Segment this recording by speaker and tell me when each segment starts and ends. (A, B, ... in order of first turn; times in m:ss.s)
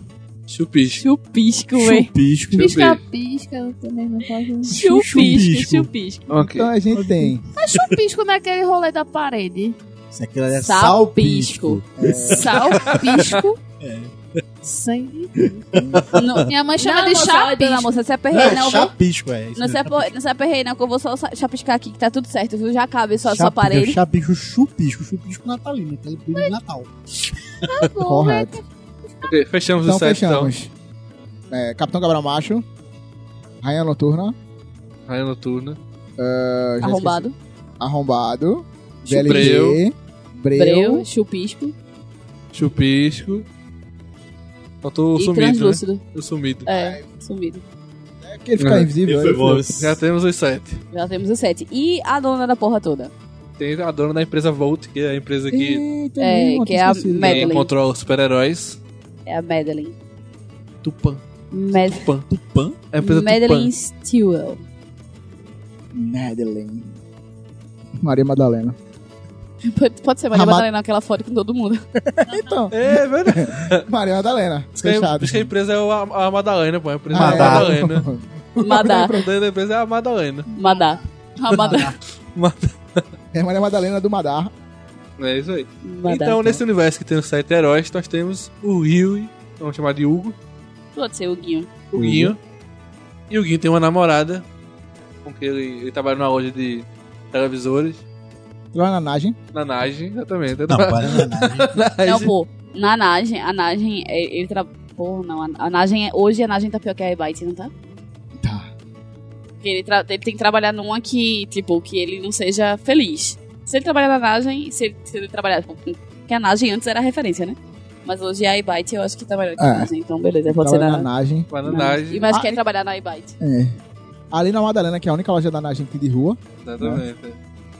0:00.5-0:01.0 A
0:01.0-0:02.1 B
0:01.8-0:02.7 C
0:02.5-0:03.0 A
0:02.6-0:04.7 D
0:04.6-0:05.9 C
0:04.7-0:06.4 B
0:06.3-0:06.7 A
0:06.4-0:07.4 E
0:07.5-0:09.8 D
0:10.1-0:14.1 C
0:10.6-0:11.8 B
0:12.0-0:12.6 E
0:12.3-0:13.6 D
0:14.6-0:15.6 D
0:15.4-0:16.5 C
0:15.8-0:16.0 E
0:16.1-0:18.9 B
0:16.5-0:18.0 D
0:18.3-0:20.1 C
0:19.5-0:24.0 B
0:23.2-0:26.9 C
0:27.6-0:29.3 D
0:28.0-0:28.6 E
0:29.2-0:30.5 A
0:29.8-0:30.7 E
0:31.5-0:32.6 E
0:33.6-0:34.4 E
0:35.1-0:35.8 A
0:36.2-0:37.3 E
0:36.8-0:37.4 B
0:37.8-0:41.1 E
0:39.0-0:39.6 B
0:39.1-0:39.8 A
0:40.5-0:41.7 B
0:42.5-0:43.4 A
0:44.8-0:46.6 A
0:45.2-0:46.0 B
0:46.6-0:47.6 B
0:46.6-0:47.1 E
0:48.2-0:49.6 E
0:48.6-0:48.9 A
0:49.0-0:50.0 C
0:49.7-0:50.8 A
0:50.9-0:53.1 B
0:53.6-0:55.8 A
0:55.5-0:57.5 E
0:56.2-0:57.7 B
0:57.2-0:58.8 A
0:59.2-1:00.0 B
1:00.8-1:01.2 A
1:01.5-1:02.1 B
1:01.8-1:02.3 A
1:02.3-1:02.8 C
1:02.9-1:03.7 A
1:03.0-1:04.6 B
1:05.9-1:06.9 E
1:08.0-1:08.8 E
1:09.6-1:11.8 B
1:10.3-1:10.7 E
1:12.0-1:15.5 E
1:12.3-1:12.7 D
1:12.7-1:13.8 A
1:14.8-1:18.0 A
1:17.1-1:17.8 C
1:17.1-1:19.3 E
1:18.6-1:19.1 B
1:18.9-1:20.5 A
1:20.5-1:21.9 B
1:21.5-1:21.8 A
1:22.3-1:23.0 A
1:23.3-1:24.5 E
1:25.2-1:30.4 A
1:25.8-1:26.6 B
1:30.9-1:31.7 B
1:31.9-1:32.4 A
1:32.0-1:32.3 E
1:33.3-1:34.4 A
1:35.2-1:38.0 A
1:38.7-1:39.4 E
1:39.5-1:42.3 A
1:40.7-1:41.8 C
1:42.0-1:47.7 B
1:48.4-1:48.7 E
1:49.6-2:01.1 B
1:59.6-1:59.9 E
2:00.5-2:01.5 E
2:01.5-2:02.4 A
2:01.6-2:03.3 B
2:02.3-2:02.6 E
2:03.4-2:03.8 E
2:04.3-2:07.0 E
2:06.6-2:07.4 A